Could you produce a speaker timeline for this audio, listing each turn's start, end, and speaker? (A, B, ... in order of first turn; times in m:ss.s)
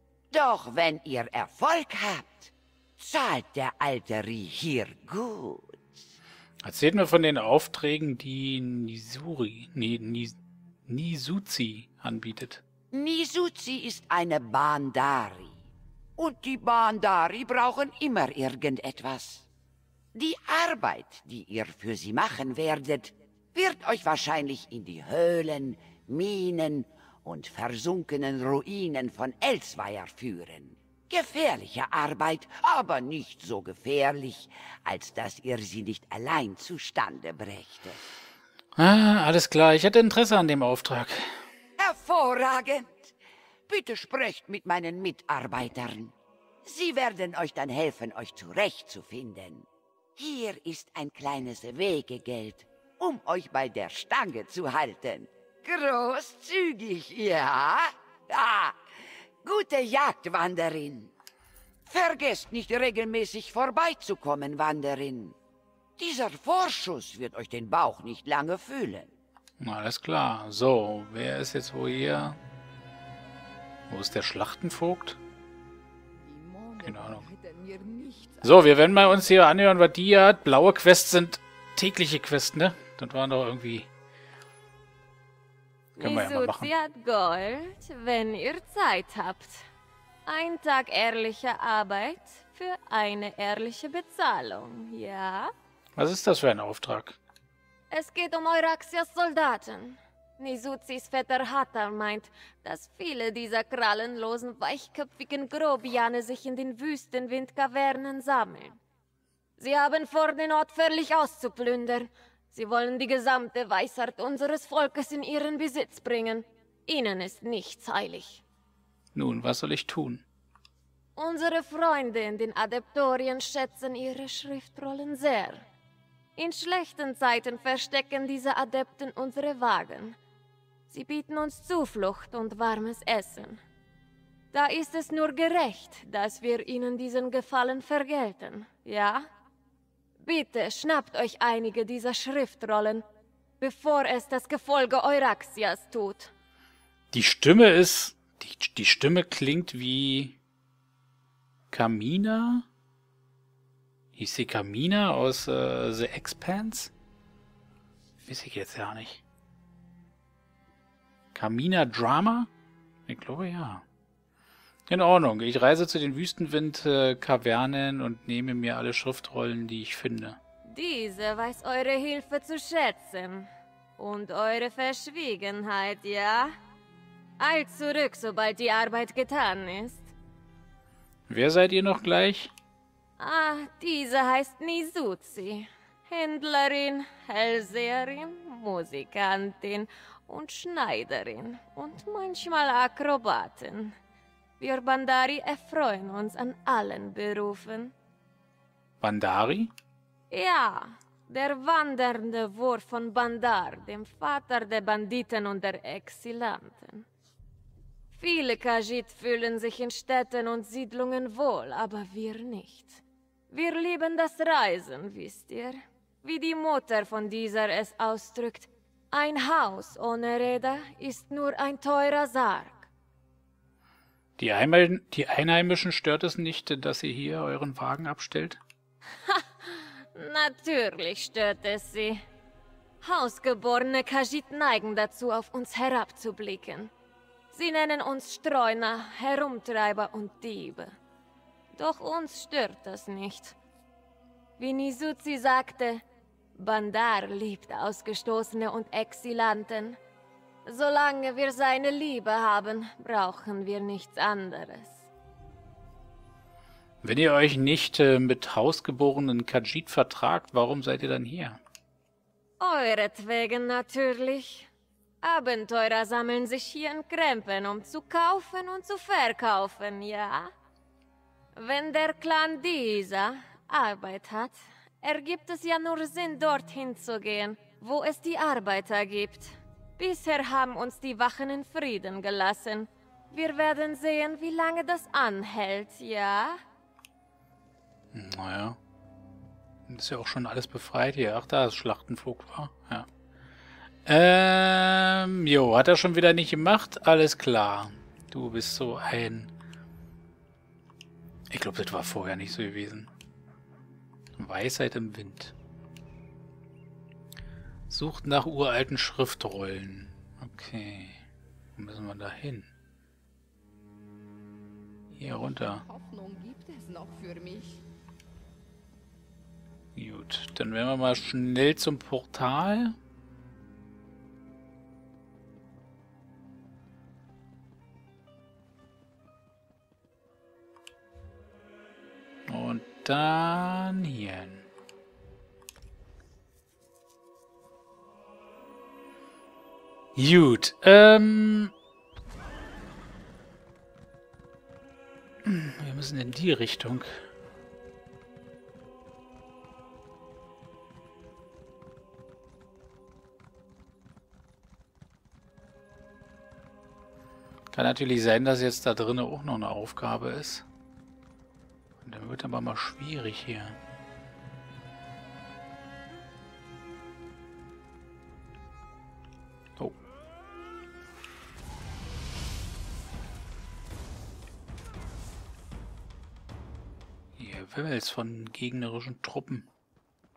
0:00.3-0:06.1 A
0:06.6-0:12.6 B
0:12.9-0:19.5 A
0:20.2-0:38.0 A
0:38.8-0:41.5 B
0:41.8-0:43.1 A
0:43.7-0:58.8 A
0:59.4-1:01.1 A
1:01.9-1:05.4 A
1:06.0-1:09.1 A
1:09.6-1:12.4 B
1:13.9-1:15.2 B
1:16.2-1:19.2 C
1:16.8-1:17.2 B
1:18.4-1:23.9 B
1:26.0-1:29.7 D
1:26.0-1:26.7 B
1:30.3-1:35.5 D
1:36.0-1:37.2 B
1:37.9-1:48.8 D
1:49.6-1:58.4 D
1:59.1-2:00.2 B
2:01.2-2:05.6 D
2:06.4-2:10.2 D
2:10.9-2:13.6 D
2:14.5-2:19.3 D
2:20.2-2:23.0 D
2:23.6-2:26.3 D
2:27.1-2:30.4 B
2:31.7-2:32.7 B
2:34.2-2:36.9 B
2:38.2-2:39.2 B
2:41.4-2:42.5 B
2:43.1-2:43.8 B
2:44.9-2:50.4 B
2:50.6-2:56.6 D
2:57.4-3:00.1 D
3:01.3-3:02.5 B
3:03.2-3:14.0 D
3:14.6-3:17.9 D
3:19.0-3:19.7 B
3:20.3-3:27.1 D
3:28.1-3:42.9 D
3:44.4-3:48.6 B
3:49.2-3:52.2 D
3:53.0-3:56.9 D
3:57.5-4:01.0 D
4:01.7-4:03.6 D
4:04.6-4:06.0 D
4:06.6-4:10.0 D
4:10.6-4:15.1 D
4:17.0-4:21.6 B
4:22.6-4:24.7 D
4:25.2-4:30.5 D
4:31.6-4:46.6 D
4:48.1-4:48.8 B
4:49.9-4:53.1 B
4:54.1-4:59.5 B
5:01.5-5:03.1 B
5:04.4-5:05.5 B
5:07.9-5:11.2 B
5:11.8-5:12.7 B
5:15.2-5:15.8 B
5:15.2-5:17.8 C
5:20.0-5:23.0 B
5:32.5-5:34.7 B
5:40.2-5:41.7 B
5:45.4-5:47.2 B
5:57.7-6:00.6 B
6:02.0-6:03.8 B
6:17.4-6:19.7 B